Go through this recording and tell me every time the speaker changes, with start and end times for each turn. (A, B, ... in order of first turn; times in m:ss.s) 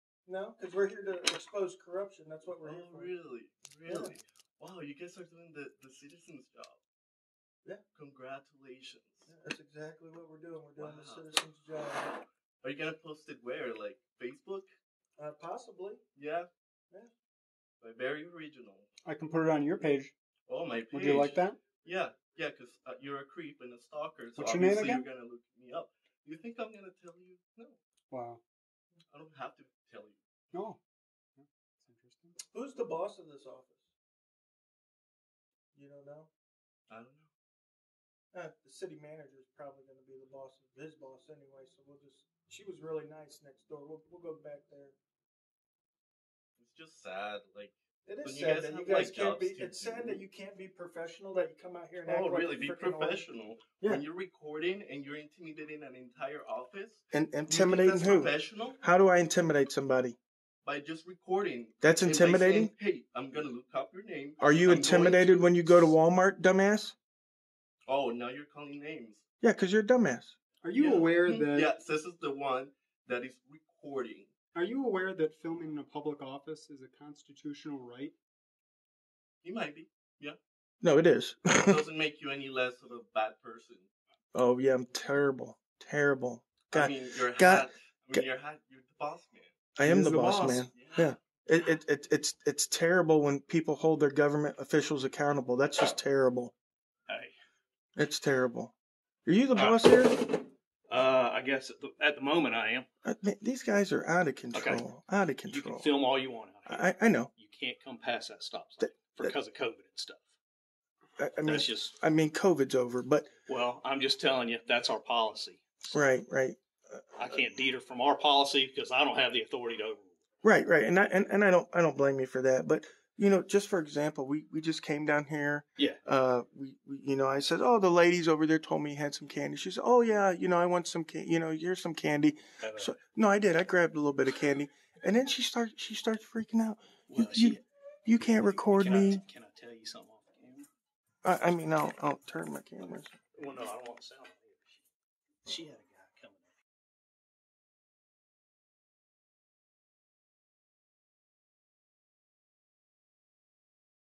0:00.2-0:03.1 A
0:02.6-0:06.8 B
0:03.9-0:04.1 A
0:07.9-0:09.3 B
0:09.2-0:12.1 A
0:10.8-0:11.3 B
0:12.6-0:14.7 B
0:15.2-0:16.0 A
0:16.1-0:16.5 B
0:17.8-0:18.9 B
0:19.0-0:20.1 C
0:20.5-0:27.8 B
0:20.9-0:21.6 C
0:24.4-0:25.1 C
0:28.1-0:28.4 C
0:29.1-0:30.2 B
0:30.5-0:30.8 C
0:31.4-0:32.4 C
0:32.5-0:33.9 A
0:35.7-0:36.3 A
0:36.9-0:37.3 B
0:38.3-0:45.0 A
0:46.6-0:50.2 B
0:48.0-0:53.2 A
0:52.0-0:58.8 B
0:57.1-1:00.2 A
1:00.6-1:06.0 B
1:01.8-1:02.7 A
1:04.4-1:06.9 A
1:07.8-1:09.2 B
1:09.4-1:10.4 A
1:10.6-1:11.7 C
1:10.7-1:14.3 B
1:14.5-1:18.1 C
1:19.4-1:20.4 B
1:20.8-1:21.8 A
1:21.6-1:23.9 B
1:24.3-1:28.2 A
1:26.7-1:31.2 B
1:29.8-1:36.5 A
1:37.1-1:37.3 D
1:38.0-1:38.7 A
1:39.2-1:40.2 A
1:39.5-1:39.8 D
1:40.9-1:42.9 D
1:43.0-1:45.9 A
1:44.5-1:44.8 D
1:45.5-1:50.3 D
1:46.6-1:47.3 A
1:48.8-1:49.3 A
1:51.2-1:53.3 A
1:51.4-1:51.9 D
1:53.5-1:56.0 D
1:55.9-1:57.5 A
1:57.2-2:00.2 D
2:00.4-2:19.2 A
2:12.6-2:13.0 D
2:17.1-2:17.6 D
2:18.3-2:20.7 D
2:21.2-2:23.2 A
2:23.3-2:24.8 D
2:25.4-2:26.5 D